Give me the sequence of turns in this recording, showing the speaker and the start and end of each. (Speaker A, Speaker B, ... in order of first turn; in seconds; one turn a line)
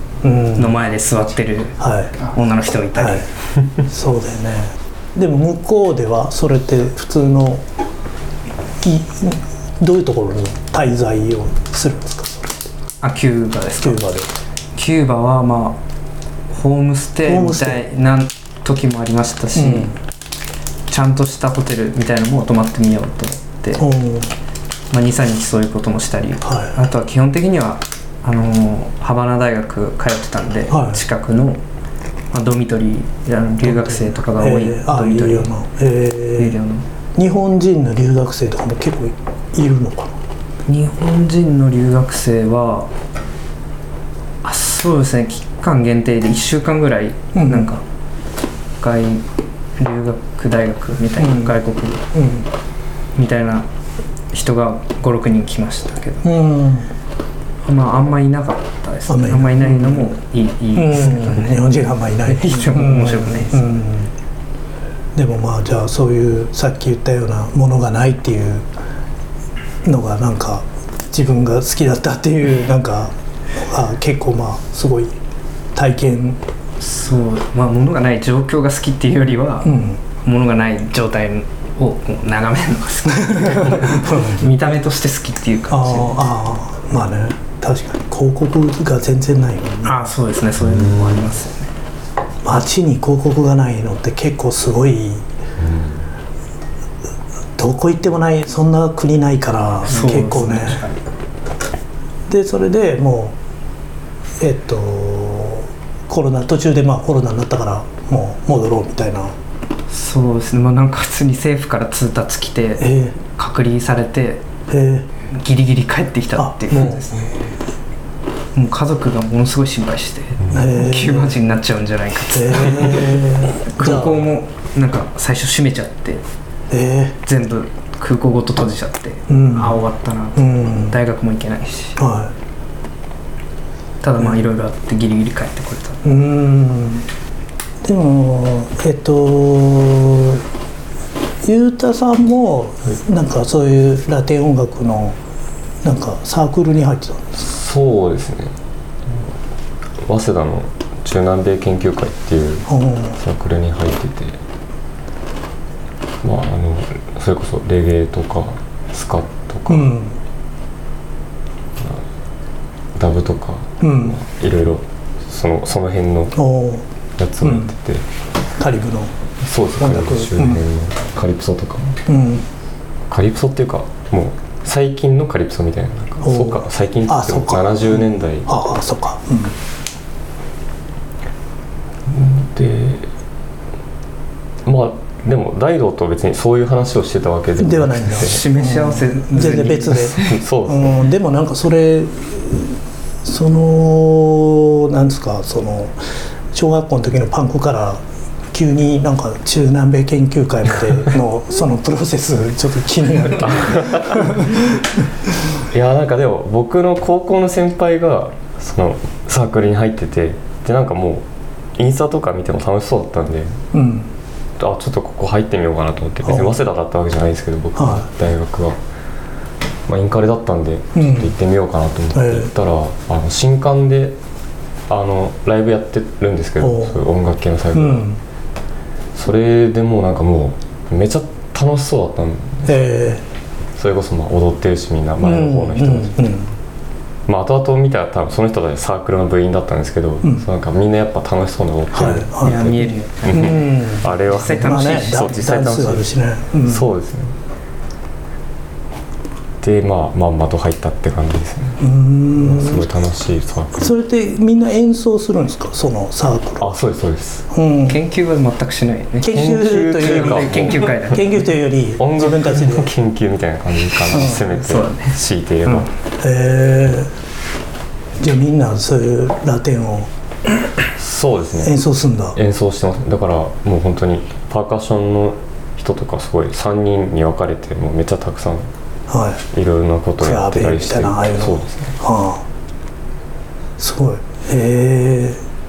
Speaker A: 0.2-0.8
Speaker B: 0.5-3.3
Speaker A: 1.8-2.1
Speaker A: 3.0-3.2
Speaker A: 3.8-7.6
Speaker A: 8.8-12.7
Speaker B: 13.0-14.0
Speaker A: 13.8-14.3
Speaker B: 14.7-15.8
Speaker B: 16.5-19.9
Speaker A: 17.2-17.8
Speaker A: 19.5-20.0
Speaker B: 20.9-23.9
Speaker A: 23.8-24.3
Speaker B: 24.9-31.6
Speaker A: 26.4-26.7
Speaker A: 30.7-31.0
Speaker B: 32.3-35.5
Speaker A: 33.6-36.6
Speaker B: 36.4-36.9
Speaker A: 37.1-40.2
Speaker B: 40.7-42.9
Speaker B: 44.4-47.8
Speaker A: 47.3-47.7
Speaker B: 48.8-49.2
Speaker B: 49.8-52.0
Speaker A: 51.2-51.5
Speaker A: 52.1-52.5
Speaker B: 53.1-53.7
Speaker B: 54.3-56.3
Speaker A: 56.2-56.9
Speaker B: 57.6-61.6
Speaker A: 59.1-60.1
Speaker A: 60.7-64.1
Speaker B: 62.2-63.8
Speaker A: 65.1-68.7
Speaker A: 69.8-75.1
Speaker A: 75.7-76.4
Speaker B: 76.8-86.2
Speaker A: 79.6-80.0
Speaker A: 83.1-84.5
Speaker A: 85.7-90.0
Speaker B: 89.8-91.7
Speaker C: 90.6-91.3
Speaker A: 92.4-95.3
Speaker C: 95.6-96.0
Speaker A: 97.6-100.8
Speaker B: 99.8-100.9
Speaker A: 102.3-103.3
Speaker A: 104.4-109.3
Speaker B: 109.9-114.5
Speaker A: 112.8-113.1
Speaker A: 114.7-115.1
Speaker B: 115.3-117.3
Speaker A: 116.3-117.2
Speaker B: 118.5-126.2
Speaker C: 120.4-120.7
Speaker A: 120.5-121.4
Speaker A: 122.3-124.2
Speaker A: 126.7-127.2
Speaker B: 127.2-132.0
Speaker A: 129.3-129.8
Speaker A: 130.3-131.0
Speaker A: 132.0-132.3
Speaker B: 134.0-136.0
Speaker A: 136.0-137.1
Speaker A: 137.8-140.4
Speaker A: 141.4-145.2
Speaker A: 145.8-147.5
Speaker C: 147.4-148.5
Speaker C: 150.0-154.4
Speaker A: 152.7-153.2
Speaker C: 156.2-159.9
Speaker A: 159.7-160.2
Speaker C: 162.9-166.4
Speaker A: 163.8-164.2
Speaker A: 166.3-166.8
Speaker C: 167.2-168.0
Speaker A: 167.4-167.7
Speaker A: 168.6-169.1
Speaker C: 169.4-172.0
Speaker A: 169.8-170.6
Speaker A: 172.1-172.4
Speaker C: 173.1-178.5
Speaker A: 176.2-179.6
Speaker C: 182.1-183.1
Speaker C: 184.6-188.4
Speaker A: 187.6-195.9
Speaker B: 188.2-190.4
Speaker C: 189.7-191.1
Speaker A: 196.5-205.0
Speaker C: 203.3-204.5
Speaker C: 205.7-213.6
Speaker A: 213.7-214.1
Speaker C: 214.6-218.8
Speaker A: 216.2-216.6
Speaker A: 217.8-218.1
Speaker C: 219.9-224.2
Speaker A: 220.9-221.3
Speaker A: 222.1-222.5
Speaker C: 224.9-228.1
Speaker A: 226.6-227.0
Speaker A: 227.7-228.2
Speaker C: 229.1-232.8
Speaker A: 232.7-233.2
Speaker C: 233.8-236.2
Speaker A: 235.2-236.5
Speaker C: 237.2-246.1
Speaker A: 241.9-246.9
Speaker B: 242.4-243.7
Speaker B: 244.2-245.5
Speaker C: 246.6-247.3
Speaker C: 249.6-251.8
Speaker A: 251.8-252.9
Speaker C: 252.4-253.8
Speaker A: 253.8-256.7
Speaker C: 256.6-257.4
Speaker A: 257.5-258.0
Speaker B: 257.9-261.5
Speaker A: 259.2-262.9
Speaker C: 259.3-261.1
Speaker C: 262.0-265.9
Speaker B: 264.0-265.9
Speaker A: 264.1-264.4
Speaker A: 266.2-267.1
Speaker A: 268.2-270.1
Speaker C: 270.9-271.8
Speaker A: 271.6-272.4
Speaker C: 272.3-278.7
Speaker A: 279.1-279.4
Speaker C: 279.5-281.9
Speaker A: 280.2-282.4
Speaker A: 283.8-285.4